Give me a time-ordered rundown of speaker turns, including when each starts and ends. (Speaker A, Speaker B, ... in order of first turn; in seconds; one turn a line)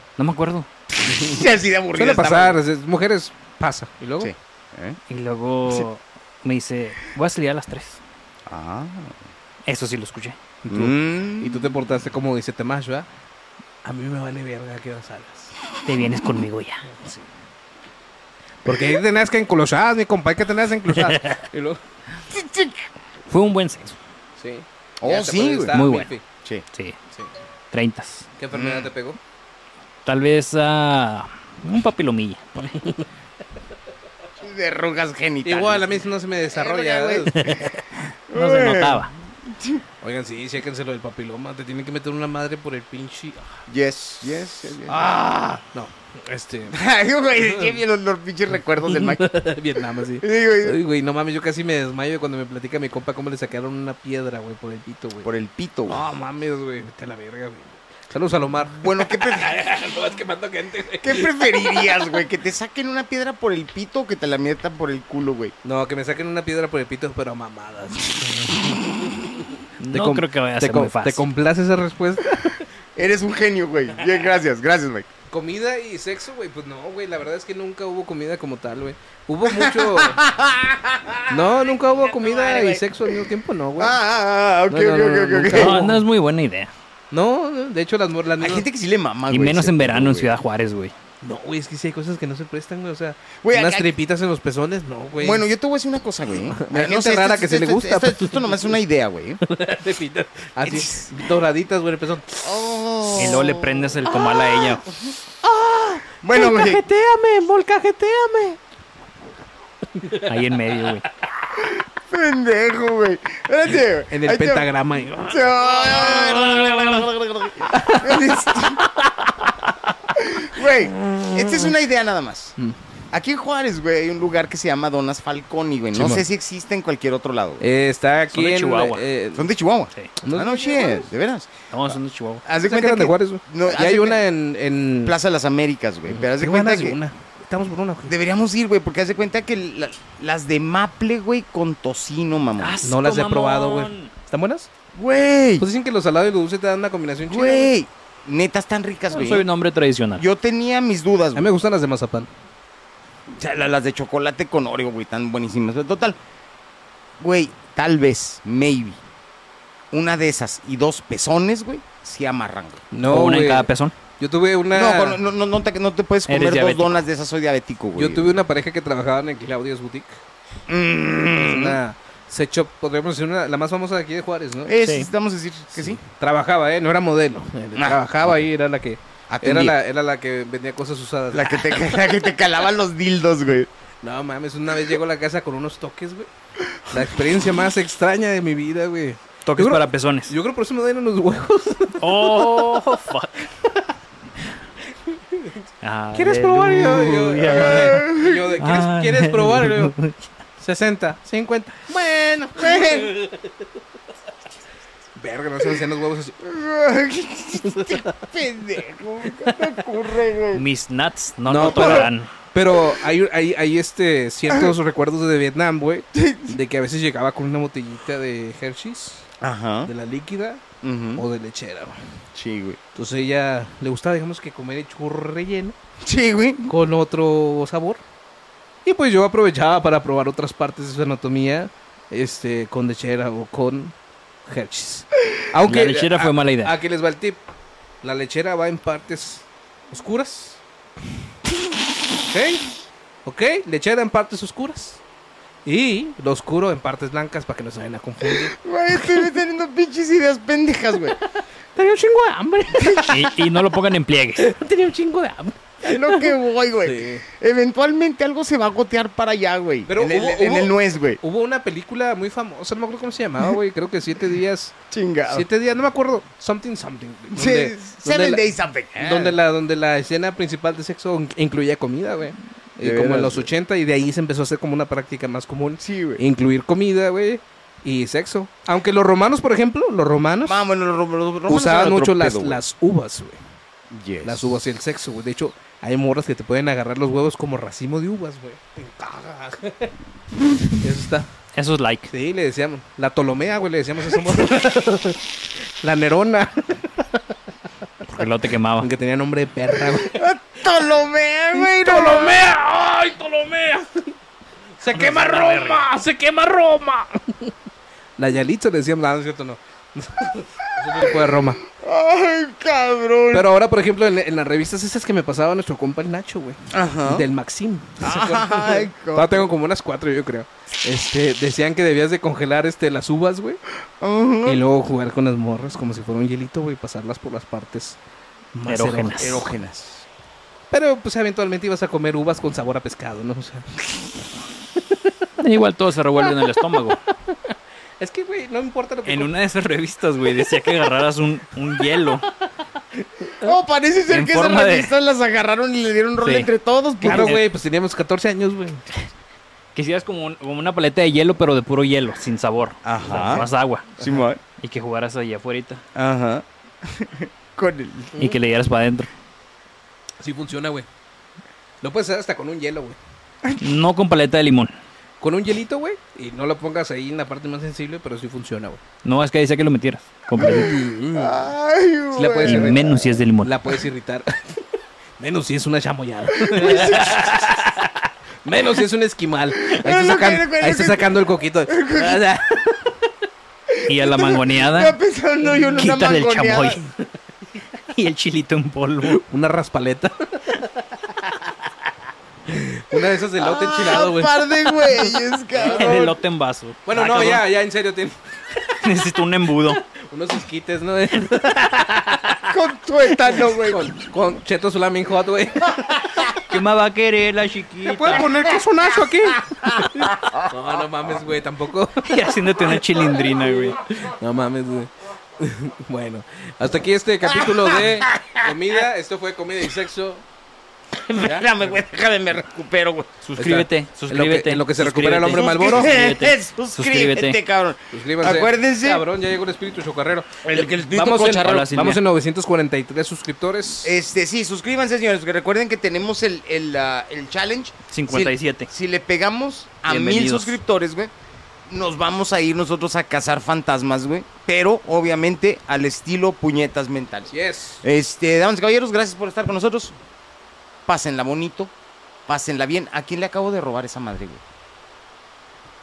Speaker A: 0.2-0.7
Speaker B: 1.0-2.6
Speaker C: 1.9-4.3
Speaker B: 4.2-5.0
Speaker A: 5.1-8.0
Speaker B: 8.5-9.2
Speaker A: 9.7-10.4
Speaker C: 10.6-13.1
Speaker B: 10.7-11.7
Speaker C: 13.8-15.6
Speaker A: 15.8-16.8
Speaker C: 16.9-17.3
Speaker C: 18.6-21.8
Speaker A: 21.1-21.4
Speaker B: 22.3-22.8
Speaker A: 23.3-24.0
Speaker C: 24.4-26.2
Speaker B: 25.0-25.8
Speaker A: 25.7-26.1
Speaker A: 27.7-28.3
Speaker C: 28.4-29.2
Speaker B: 28.5-28.9
Speaker A: 30.1-32.9
Speaker B: 34.4-37.7
Speaker C: 35.5-37.6
Speaker A: 37.4-37.7
Speaker B: 38.3-39.8
Speaker A: 38.3-39.1
Speaker C: 40.0-43.6
Speaker B: 43.7-45.1
Speaker C: 44.9-46.8
Speaker B: 46.7-49.4
Speaker C: 47.4-47.8
Speaker C: 48.9-55.3
Speaker B: 50.2-50.8
Speaker B: 55.2-56.0
Speaker C: 55.9-62.0
Speaker B: 58.8-59.6
Speaker B: 61.0-65.5
Speaker C: 65.6-68.8
Speaker A: 69.8-71.3
Speaker C: 69.9-72.6
Speaker B: 73.0-75.1
Speaker C: 75.3-80.2
Speaker B: 79.5-81.4
Speaker C: 81.3-84.0
Speaker B: 82.1-83.1
Speaker B: 83.8-85.8
Speaker C: 84.7-86.0
Speaker A: 85.5-86.7
Speaker C: 87.1-88.7
Speaker B: 88.4-90.3
Speaker A: 89.3-90.9
Speaker C: 91.2-95.5
Speaker B: 93.4-93.9
Speaker B: 95.2-99.4
Speaker C: 96.6-98.7
Speaker C: 99.4-103.2
Speaker B: 100.6-101.2
Speaker B: 102.4-103.9
Speaker A: 103.2-104.9
Speaker C: 104.1-104.8
Speaker C: 105.4-108.6
Speaker B: 106.2-106.8
Speaker C: 110.0-110.4
Speaker A: 110.2-111.1
Speaker B: 111.6-114.7
Speaker C: 114.1-116.8
Speaker B: 115.3-118.9
Speaker C: 117.7-119.5
Speaker B: 120.1-122.5
Speaker C: 121.0-121.7
Speaker B: 123.1-127.6
Speaker C: 125.9-126.2
Speaker C: 127.6-129.5
Speaker A: 128.3-129.1
Speaker B: 129.3-134.2
Speaker C: 130.2-131.1
Speaker A: 131.7-132.4
Speaker C: 132.6-135.2
Speaker B: 135.0-137.0
Speaker C: 136.1-138.2
Speaker B: 138.1-142.8
Speaker A: 142.6-144.1
Speaker C: 142.8-144.7
Speaker B: 144.9-145.7
Speaker C: 145.6-147.7
Speaker B: 147.3-149.5
Speaker A: 149.1-150.2
Speaker B: 150.2-151.5
Speaker C: 151.3-152.3
Speaker B: 153.3-156.2
Speaker B: 157.2-159.0
Speaker B: 159.9-162.8
Speaker C: 162.9-165.2
Speaker A: 163.0-163.9
Speaker B: 164.7-168.4
Speaker A: 166.3-167.0
Speaker C: 168.0-170.2
Speaker B: 170.7-171.8
Speaker C: 171.3-174.8
Speaker B: 174.7-176.0
Speaker C: 175.7-181.9
Speaker B: 177.8-178.5
Speaker B: 179.3-179.8
Speaker B: 181.3-183.7
Speaker C: 184.0-186.3
Speaker C: 186.9-192.8
Speaker A: 189.4-190.3
Speaker A: 192.0-193.5
Speaker C: 195.1-199.9
Speaker A: 195.8-200.2
Speaker B: 197.5-198.5
Speaker C: 200.6-203.6
Speaker B: 202.6-203.2
Speaker C: 205.2-206.4
Speaker B: 206.4-210.7
Speaker C: 207.6-208.2
Speaker A: 210.5-212.3
Speaker C: 211.5-219.3
Speaker B: 211.6-212.1
Speaker B: 216.1-216.6
Speaker B: 219.4-219.9
Speaker C: 219.9-220.6
Speaker B: 220.8-221.2
Speaker C: 221.2-222.1
Speaker B: 222.3-222.8
Speaker C: 222.9-225.8
Speaker B: 226.0-226.7
Speaker C: 226.7-228.0
Speaker C: 228.8-233.9
Speaker C: 234.5-237.4
Speaker A: 235.6-236.8
Speaker C: 238.0-240.6
Speaker C: 242.3-242.7
Speaker C: 243.2-245.0
Speaker C: 245.7-249.3
Speaker B: 248.2-251.2
Speaker C: 251.8-253.5
Speaker A: 253.1-254.4
Speaker C: 254.4-256.3
Speaker B: 255.8-261.2
Speaker C: 256.8-257.2
Speaker C: 259.9-264.7
Speaker B: 264.9-265.5
Speaker C: 265.3-268.4
Speaker B: 267.3-269.4
Speaker C: 269.0-280.7
Speaker B: 272.8-273.5
Speaker B: 275.8-276.2
Speaker B: 280.4-282.6
Speaker C: 281.5-283.4
Speaker B: 283.9-284.6
Speaker C: 284.2-289.9
Speaker C: 290.6-291.3
Speaker A: 291.5-292.1
Speaker C: 292.1-297.3
Speaker A: 298.0-298.9
Speaker C: 298.8-300.2
Speaker B: 299.9-302.4
Speaker C: 301.5-304.1
Speaker C: 304.8-307.5
Speaker A: 304.9-305.9
Speaker C: 308.2-311.6
Speaker B: 310.9-313.5
Speaker C: 313.3-323.6
Speaker B: 316.7-317.3
Speaker B: 318.0-319.5
Speaker B: 324.0-324.6
Speaker C: 324.4-328.0
Speaker C: 328.5-329.4
Speaker A: 328.7-329.4
Speaker B: 329.2-330.1
Speaker C: 330.7-333.7
Speaker A: 335.4-337.0
Speaker C: 336.4-339.3
Speaker A: 339.1-342.3
Speaker C: 340.3-340.7
Speaker C: 341.8-342.1
Speaker C: 343.2-343.5
Speaker B: 343.4-347.4
Speaker A: 344.1-344.9
Speaker A: 346.2-346.5
Speaker C: 347.0-348.9
Speaker A: 347.0-347.4
Speaker A: 349.8-353.9
Speaker B: 352.9-354.4
Speaker C: 353.1-353.4
Speaker A: 354.6-355.8
Speaker B: 356.0-358.2
Speaker A: 358.2-359.1
Speaker C: 360.2-360.9
Speaker C: 361.8-363.0
Speaker A: 363.6-364.7
Speaker C: 365.2-368.8
Speaker A: 369.0-370.7
Speaker C: 370.4-371.4
Speaker B: 370.4-373.1
Speaker C: 372.1-374.6
Speaker A: 372.4-373.6
Speaker C: 375.2-383.0
Speaker B: 376.4-377.4
Speaker B: 379.6-381.1
Speaker B: 381.7-382.2
Speaker B: 383.7-386.8
Speaker A: 383.9-385.0
Speaker A: 385.6-386.8
Speaker A: 387.9-389.2
Speaker C: 389.1-391.3
Speaker C: 392.5-394.9
Speaker B: 392.9-396.2
Speaker C: 395.5-396.0
Speaker A: 395.6-397.4
Speaker C: 396.9-399.2
Speaker A: 398.8-399.8
Speaker C: 399.7-402.5
Speaker B: 402.5-403.9
Speaker C: 403.3-406.3
Speaker A: 406.4-408.3
Speaker C: 407.8-420.2
Speaker A: 412.0-413.8
Speaker B: 417.2-418.5
Speaker B: 421.1-423.1
Speaker C: 421.2-421.7
Speaker A: 423.2-427.4
Speaker C: 423.4-425.9
Speaker B: 425.3-429.1
Speaker C: 427.9-433.9
Speaker B: 430.4-431.8
Speaker A: 431.3-432.0
Speaker B: 433.8-441.1
Speaker A: 437.9-438.7
Speaker A: 439.9-440.6
Speaker B: 441.7-447.3
Speaker C: 447.3-447.8
Speaker B: 447.8-449.9
Speaker B: 450.9-451.7
Speaker B: 452.3-454.4